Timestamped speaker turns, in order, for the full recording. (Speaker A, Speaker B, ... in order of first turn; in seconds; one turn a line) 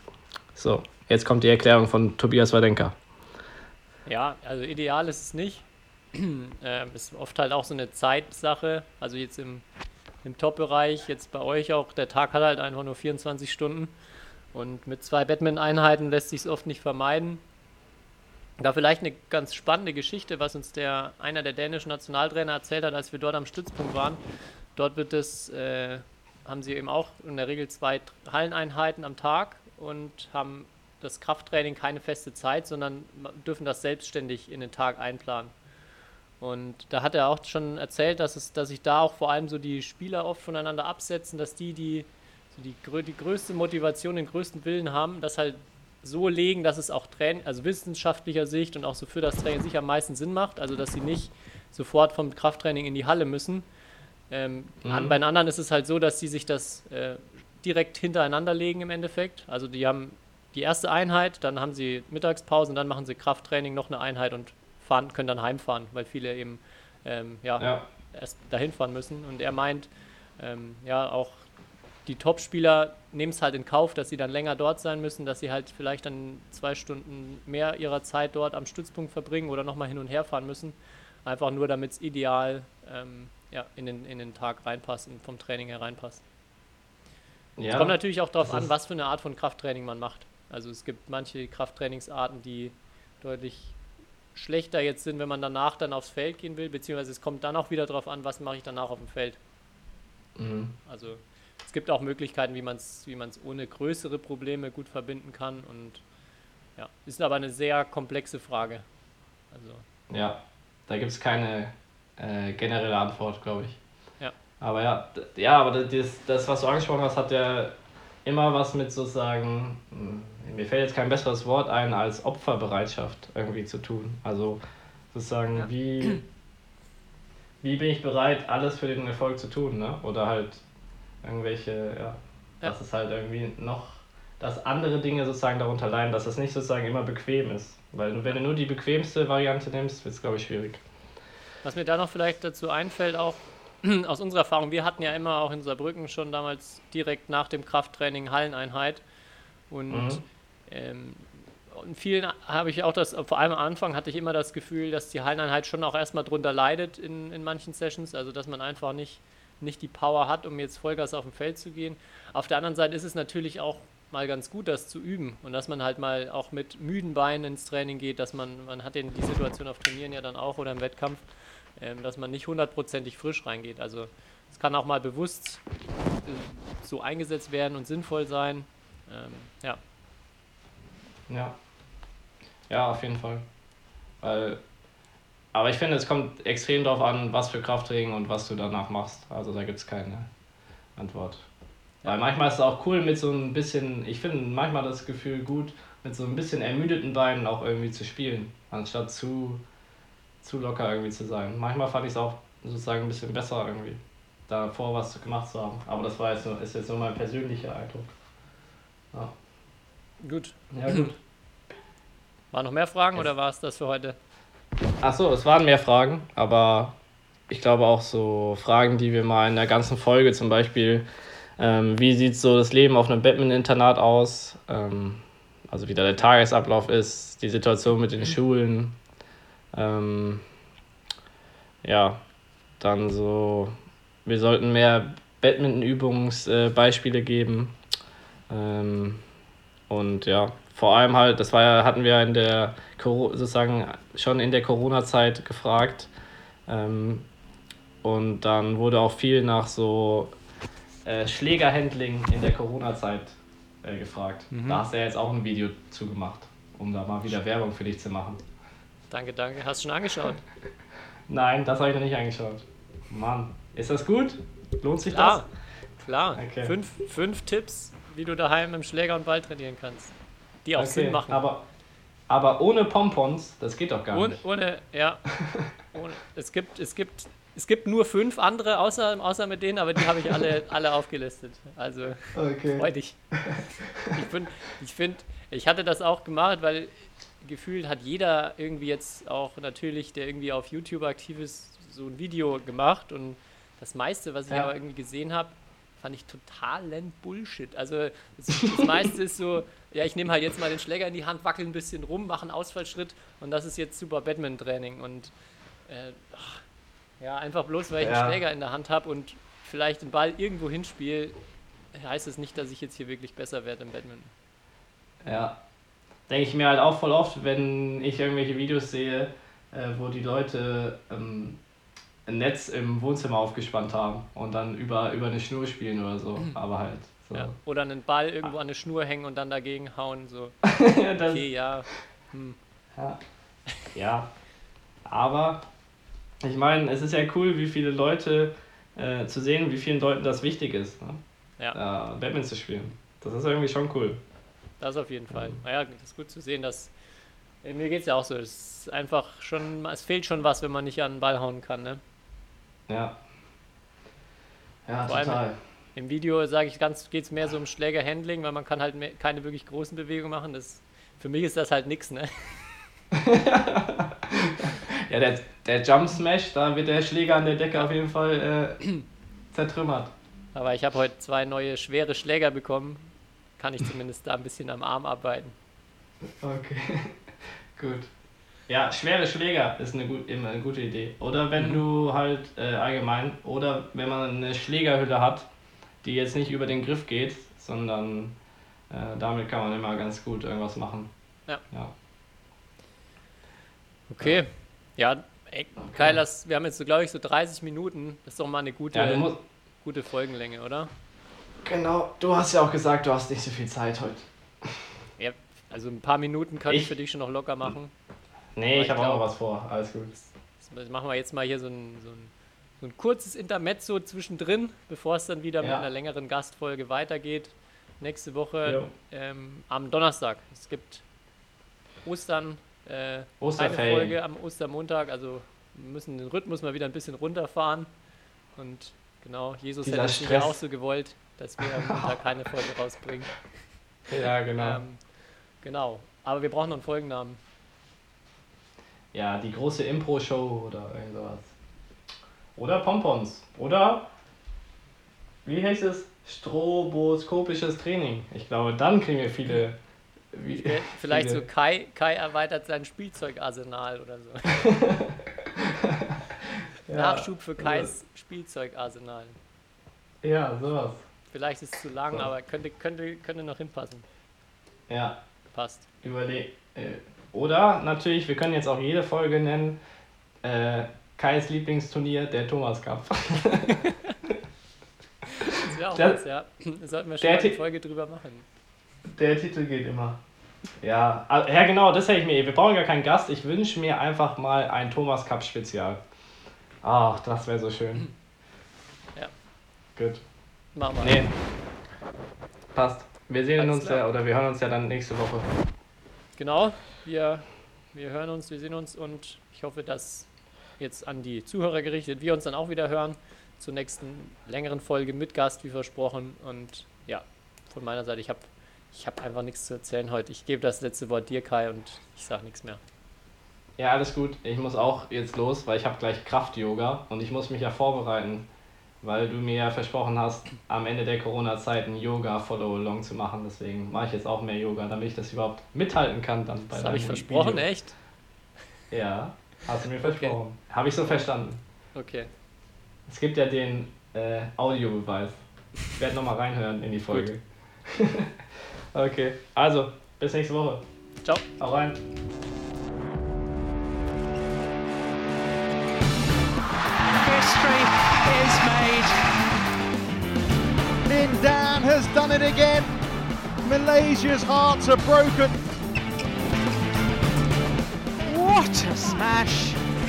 Speaker A: 0.6-3.0
Speaker B: 4.1-9.7
Speaker B: 10.2-13.9
Speaker B: 14.5-17.4
Speaker B: 18.6-24.2
Speaker B: 24.8-35.5
Speaker B: 36.4-53.7
Speaker B: 54.3-71.5
Speaker A: 54.8-55.2
Speaker A: 67.6-67.8
Speaker B: 72.1-86.2
Speaker A: 87.6-88.7
Speaker B: 87.7-93.8
Speaker B: 94.3-99.4
Speaker A: 100.4-100.8
Speaker B: 100.8-106.0
Speaker B: 106.8-108.9
Speaker B: 109.5-109.8
Speaker A: 110.1-113.8
Speaker A: 114.6-124.6
Speaker A: 125.1-126.2
Speaker B: 125.6-126.2
Speaker A: 127.6-130.6
Speaker A: 131.2-140.8
Speaker B: 141.6-149.0
Speaker B: 149.7-171.2
Speaker A: 149.9-150.2
Speaker B: 171.8-175.6
Speaker B: 176.2-179.8
Speaker A: 181.3-181.6
Speaker A: 182.7-183.5
Speaker A: 184.2-184.6
Speaker A: 185.5-190.3
Speaker A: 191.0-191.4
Speaker A: 192.1-199.6
Speaker A: 200.4-208.1
Speaker B: 210.2-211.1
Speaker A: 210.7-211.2
Speaker B: 212.5-214.2
Speaker A: 215.0-216.9
Speaker A: 217.5-221.1
Speaker A: 221.6-229.0
Speaker A: 229.7-230.4
Speaker A: 231.8-232.2
Speaker A: 232.8-233.7
Speaker A: 234.2-237.8
Speaker A: 238.5-239.2
Speaker A: 239.9-246.1
Speaker A: 246.7-247.3
Speaker A: 248.0-250.3
Speaker A: 251.1-258.4
Speaker B: 254.5-254.8
Speaker B: 259.1-260.4
Speaker A: 261.3-265.4
Speaker B: 265.1-265.5
Speaker B: 266.0-270.1
Speaker A: 266.4-266.7
Speaker B: 270.6-271.4
Speaker A: 270.8-271.6
Speaker A: 272.3-274.4
Speaker B: 274.1-275.2
Speaker A: 275.4-275.7
Speaker B: 275.9-305.3
Speaker A: 282.4-284.2
Speaker B: 305.9-306.6
Speaker B: 307.2-311.4
Speaker A: 308.0-308.4
Speaker B: 311.9-314.3
Speaker A: 315.2-315.6
Speaker A: 316.3-321.6
Speaker A: 322.3-327.6
Speaker B: 327.3-330.6
Speaker A: 330.6-331.4
Speaker B: 331.1-332.6
Speaker A: 333.9-334.3
Speaker A: 335.1-335.7
Speaker A: 336.4-341.2
Speaker A: 341.7-344.2
Speaker B: 344.8-346.9
Speaker B: 347.6-352.0
Speaker A: 352.9-353.2
Speaker A: 354.9-355.6
Speaker B: 355.1-355.4
Speaker B: 356.0-362.9
Speaker A: 363.1-368.9
Speaker A: 369.5-370.1
Speaker B: 370.5-375.6
Speaker A: 376.2-377.2
Speaker A: 377.8-378.1
Speaker A: 378.7-385.5
Speaker A: 386.0-388.4
Speaker A: 388.9-391.1
Speaker B: 394.1-400.9
Speaker A: 395.8-396.2
Speaker A: 398.9-399.4
Speaker A: 401.6-404.9
Speaker B: 405.2-407.9
Speaker A: 408.6-410.2
Speaker B: 408.7-409.2
Speaker B: 410.6-421.0
Speaker A: 418.7-418.9
Speaker B: 422.0-427.9
Speaker A: 423.4-424.1
Speaker B: 428.6-433.4
Speaker A: 429.8-430.6
Speaker A: 431.6-432.2
Speaker A: 434.1-434.8
Speaker B: 434.6-435.0
Speaker B: 435.6-437.4
Speaker A: 439.1-441.5
Speaker A: 442.6-444.1
Speaker A: 445.4-449.8
Speaker A: 450.3-451.4
Speaker B: 450.5-454.7
Speaker A: 454.5-457.9
Speaker B: 456.9-459.4
Speaker A: 460.2-461.0
Speaker B: 461.3-464.1
Speaker A: 464.9-465.2
Speaker B: 465.5-465.9
Speaker A: 466.0-469.8
Speaker A: 470.4-474.4
Speaker A: 475.4-476.2
Speaker B: 475.4-478.5
Speaker A: 477.2-477.6
Speaker A: 479.1-480.2
Speaker A: 480.8-486.0
Speaker A: 486.8-488.1
Speaker A: 490.0-490.2
Speaker B: 490.8-491.2
Speaker A: 491.0-491.4
Speaker A: 492.7-495.5
Speaker B: 493.6-494.0
Speaker B: 496.4-512.8
Speaker A: 513.8-518.5
Speaker A: 519.0-527.7
Speaker B: 526.7-528.0
Speaker A: 528.9-531.6
Speaker B: 530.0-530.4
Speaker B: 532.0-532.3
Speaker A: 533.1-535.4
Speaker A: 536.0-540.9
Speaker A: 541.6-542.0
Speaker C: 547.1-549.3
Speaker D: 551.1-552.9
Speaker D: 553.6-555.6
Speaker C: 558.3-559.4
Speaker D: 559.0-559.8